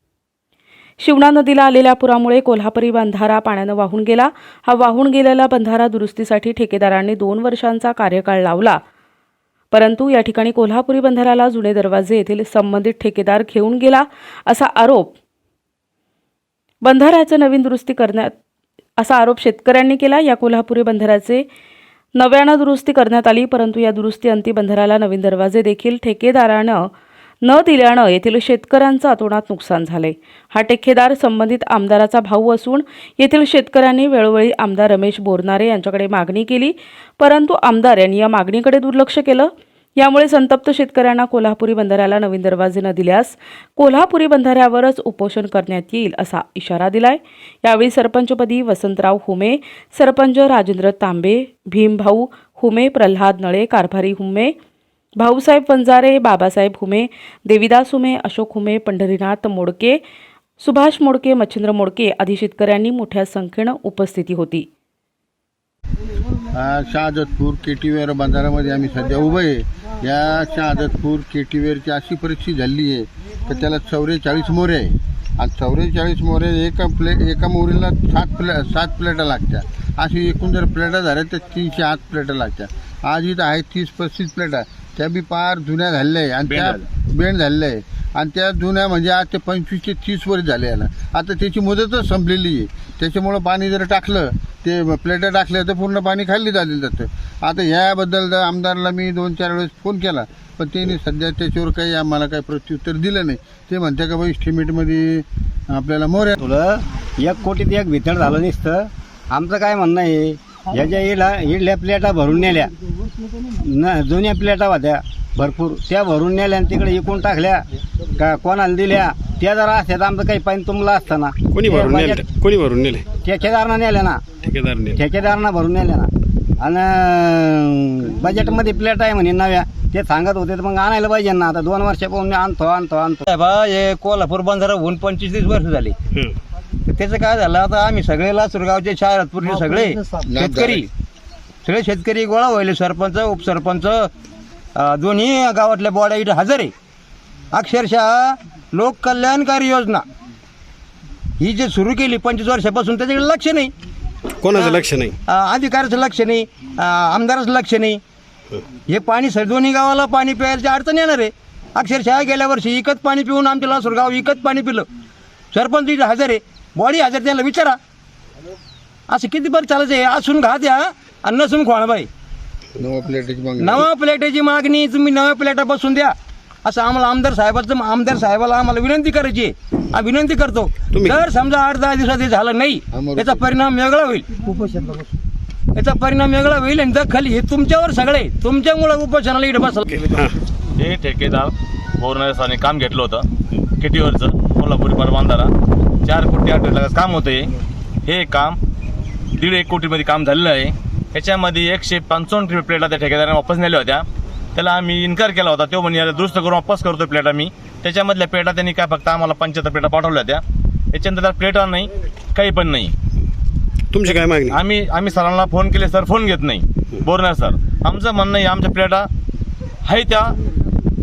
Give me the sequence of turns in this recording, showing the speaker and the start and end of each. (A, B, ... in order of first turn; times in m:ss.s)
0:01.0-0:08.8 A
0:09.7-0:15.1 A
0:16.8-0:18.3 A
0:19.0-0:21.4 A
0:22.1-0:26.9 A
0:27.4-0:54.5 A
0:55.2-1:00.0 A
1:00.6-1:04.6 A
1:06.5-1:46.4 B
1:26.4-1:26.8 C
1:46.4-1:52.7 D
1:53.5-1:57.6 D
1:58.2-2:02.3 D
2:01.5-2:03.1 E
2:03.1-2:04.3 D
2:04.4-2:05.0 E
2:04.9-2:13.2 D
2:13.3-2:16.0 F
2:16.8-2:20.9 F
2:20.2-2:20.8 B
2:21.6-2:24.1 F
2:24.8-2:26.7 F
2:27.5-2:30.0 F
2:31.4-2:33.7 F
2:34.4-2:35.1 E
2:34.5-2:38.0 F
2:38.9-2:44.9 F
2:45.5-2:47.8 F
2:49.1-2:52.1 F
2:52.8-2:53.9 B
2:53.6-3:04.3 F
3:00.9-3:01.2 E
3:02.9-3:03.5 B
3:05.8-3:10.1 F
3:10.8-3:13.2 C
3:13.8-3:15.5 C
3:16.0-3:17.5 C
3:18.0-3:18.6 C
3:19.4-3:32.9 C
3:33.9-3:34.6 E
3:34.4-3:39.1 C
3:39.8-3:40.3 C